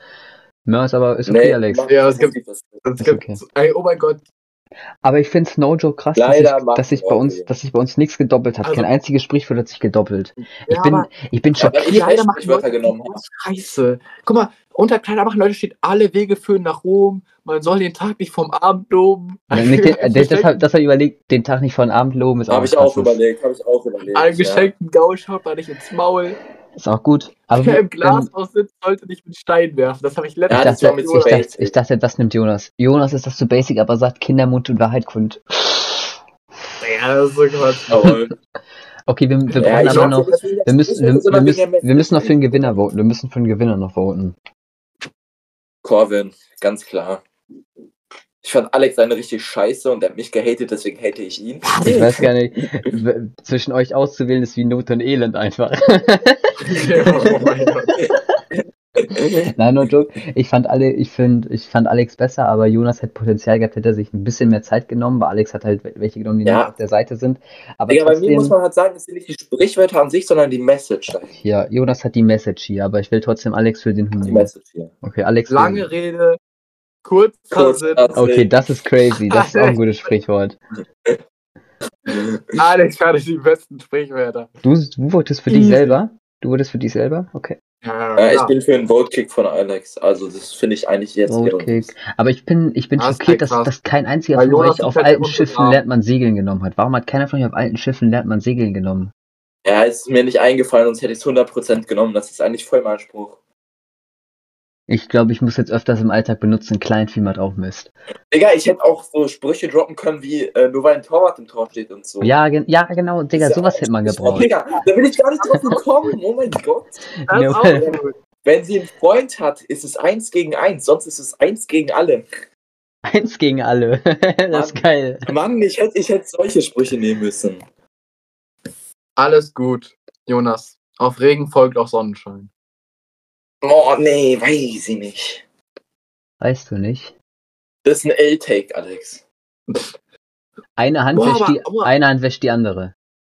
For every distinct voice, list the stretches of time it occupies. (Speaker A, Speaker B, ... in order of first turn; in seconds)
Speaker A: 0.7-1.9, 3.0-3.4, 5.0-11.9, 19.5-23.2, 26.8-28.3, 30.6-36.1, 39.1-44.4, 51.8-56.6, 59.3-68.5, 71.4-74.5, 75.0-75.9, 78.2-80.6, 84.6-87.6, 91.3-99.1, 104.9-107.9, 112.2-114.5, 117.3-117.8, 123.1-125.3, 136.4-137.1, 140.8-142.9
Speaker B: 1.3-2.8, 6.2-7.5, 11.6-13.2, 22.5-24.7, 30.5-31.7, 37.9-38.3, 39.6-42.8, 45.8-47.2, 48.4-52.1, 57.2-58.6, 66.5-66.7, 67.9-71.3, 74.2-74.9, 77.5-78.5, 82.1-82.6, 88.2-91.9, 99.7-103.4, 108.3-112.3, 113.4-117.0, 117.6-122.2, 124.5-127.6, 133.6-135.4, 137.8-139.2
Speaker C: 1.9-4.2, 8.6-8.9, 10.7-20.6, 24.1-26.4, 27.6-31.4, 36.8-38.0, 39.5-40.4, 51.6-52.2, 56.6-58.0, 75.5-76.4, 77.0-78.1, 79.3-79.8, 82.6-84.5, 85.5-86.0, 87.8-88.5, 93.0-93.7, 94.3-95.8, 115.4-115.8, 117.3-118.2, 129.2-132.5, 139.7-139.9, 141.1-141.9